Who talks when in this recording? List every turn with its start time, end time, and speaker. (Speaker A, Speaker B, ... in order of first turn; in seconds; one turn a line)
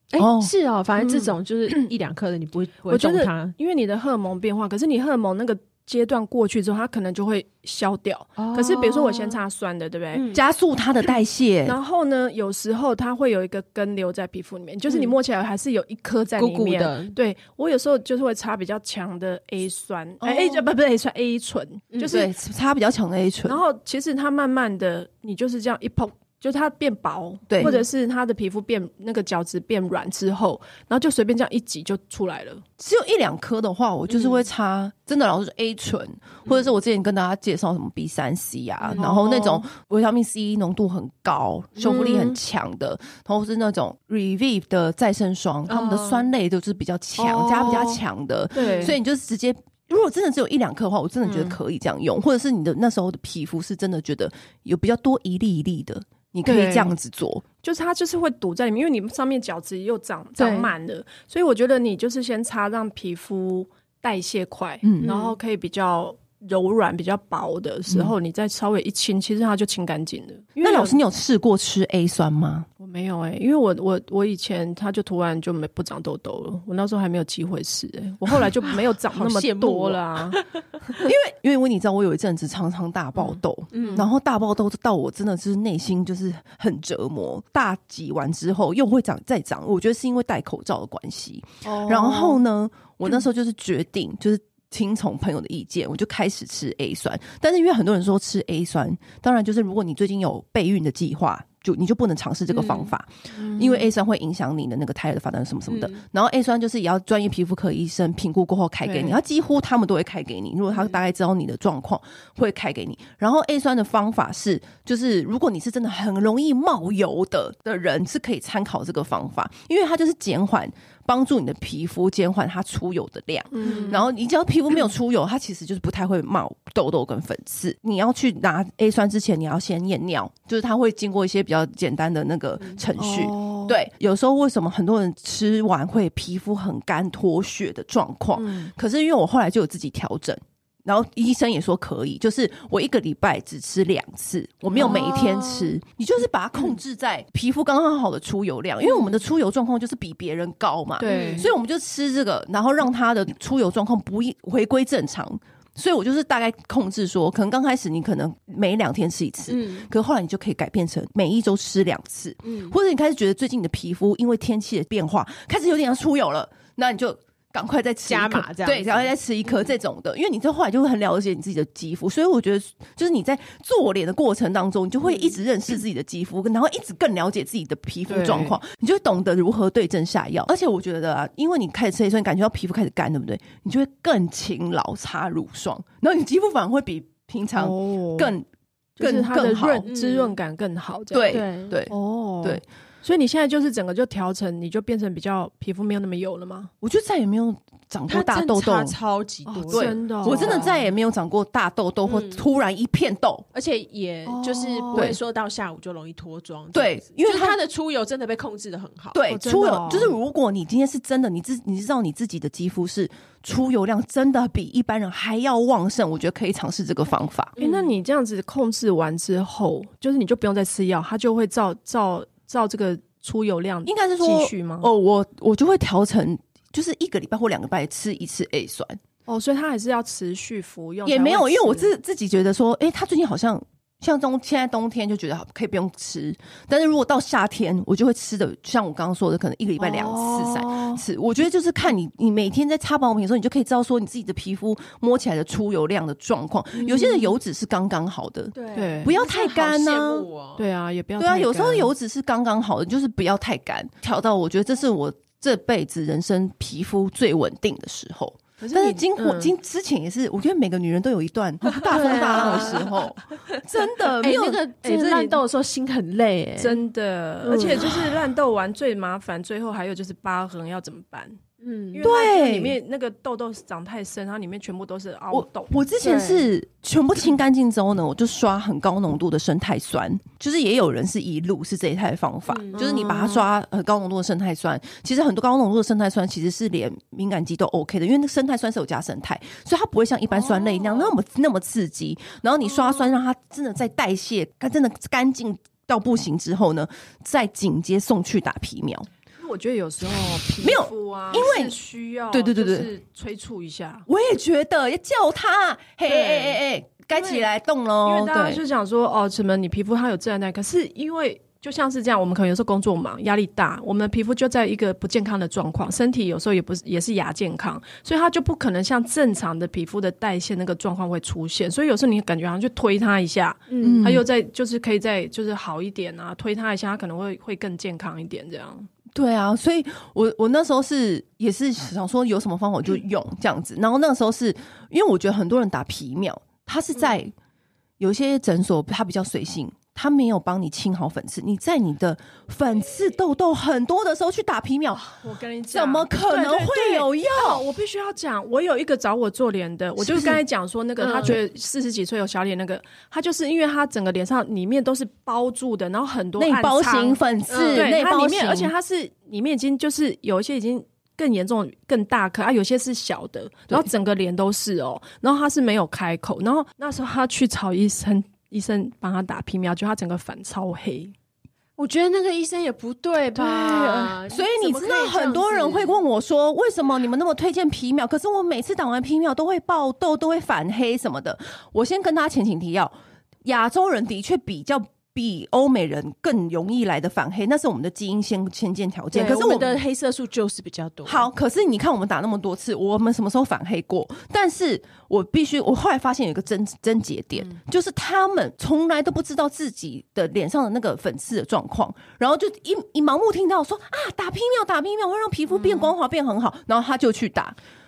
Speaker A: 0.1-3.5
Speaker B: 0.2-0.5
Speaker C: 1.0-1.9
Speaker C: 2.9-10.2
Speaker A: 8.4-9.4
Speaker A: 10.1-10.4
Speaker B: 10.3-11.8
Speaker C: 11.7-22.3
Speaker A: 14.9-15.2
Speaker A: 16.4-17.2
Speaker B: 20.2-20.6
Speaker B: 22.1-23.6
Speaker C: 23.4-32.6
Speaker B: 27.5-27.7
Speaker B: 32.8-57.4
Speaker C: 38.8-39.6
Speaker C: 41.8-42.4
Speaker A: 45.7-46.3
Speaker C: 47.2-48.0
Speaker C: 48.5-49.0
Speaker A: 48.6-48.9
Speaker C: 51.2-51.6
Speaker C: 56.4-56.9
Speaker C: 57.6-71.0
Speaker A: 60.4-60.7
Speaker B: 64.8-65.1
Speaker A: 65.0-65.3
Speaker B: 67.9-68.1
Speaker B: 70.6-72.7
Speaker C: 72.8-81.1
Speaker A: 79.1-80.6
Speaker B: 81.0-188.5
Speaker C: 83.2-84.1
Speaker A: 83.7-84.1
Speaker C: 91.6-92.4
Speaker A: 102.5-102.9
Speaker C: 103.3-103.9
Speaker A: 105.7-106.0
Speaker C: 108.8-109.2
Speaker C: 123.5-124.1
Speaker A: 123.7-124.0
Speaker C: 133.0-133.8
Speaker C: 138.4-138.7
Speaker C: 144.7-145.7
Speaker A: 144.8-145.3
Speaker C: 151.0-151.5
Speaker A: 151.1-151.5
Speaker A: 159.5-159.9
Speaker A: 162.4-162.8
Speaker A: 168.1-169.6
Speaker A: 175.1-175.3
Speaker C: 178.1-178.6
Speaker C: 187.6-188.3
Speaker C: 189.0-196.7
Speaker B: 189.0-189.9
Speaker A: 189.9-190.4
Speaker B: 191.1-192.6
Speaker A: 191.3-191.8
Speaker B: 196.8-198.9
Speaker A: 198.1-200.8
Speaker C: 199.5-200.8
Speaker B: 199.7-203.5
Speaker A: 202.1-202.4
Speaker A: 203.5-209.2
Speaker C: 204.3-205.2
Speaker B: 206.7-207.6
Speaker B: 209.1-217.5
Speaker C: 209.3-210.2
Speaker A: 217.6-217.9
Speaker C: 217.6-224.9
Speaker B: 223.9-229.0
Speaker C: 229.3-231.9
Speaker B: 231.1-250.3
Speaker C: 239.8-241.0
Speaker C: 246.8-247.3
Speaker A: 248.6-250.6
Speaker C: 248.8-249.2
Speaker C: 250.6-251.9
Speaker B: 251.2-264.6
Speaker C: 258.6-259.5
Speaker C: 261.7-262.9
Speaker A: 261.9-263.0
Speaker A: 264.2-266.8
Speaker C: 264.8-265.4
Speaker C: 266.6-271.4
Speaker A: 267.4-268.0
Speaker B: 267.8-268.0
Speaker A: 271.6-272.1
Speaker C: 271.9-275.8
Speaker B: 272.0-272.8
Speaker B: 275.3-299.1
Speaker A: 276.0-276.5
Speaker A: 282.5-283.2
Speaker C: 282.8-283.4
Speaker C: 290.3-291.1
Speaker C: 299.4-304.1
Speaker B: 300.6-301.7
Speaker B: 302.3-302.9
Speaker B: 304.1-308.6
Speaker C: 306.1-306.6
Speaker C: 307.1-307.5
Speaker C: 308.0-328.9
Speaker A: 323.7-324.0
Speaker B: 323.8-324.2
Speaker B: 329.1-337.3
Speaker B: 338.0-345.2
Speaker C: 345.1-371.1
Speaker B: 345.7-347.6
Speaker B: 350.0-350.4
Speaker A: 351.0-351.4
Speaker B: 356.4-358.7
Speaker A: 357.5-357.9
Speaker A: 371.8-375.9
Speaker B: 373.4-382.9
Speaker B: 383.4-389.8
Speaker A: 389.1-391.3
Speaker B: 391.1-407.6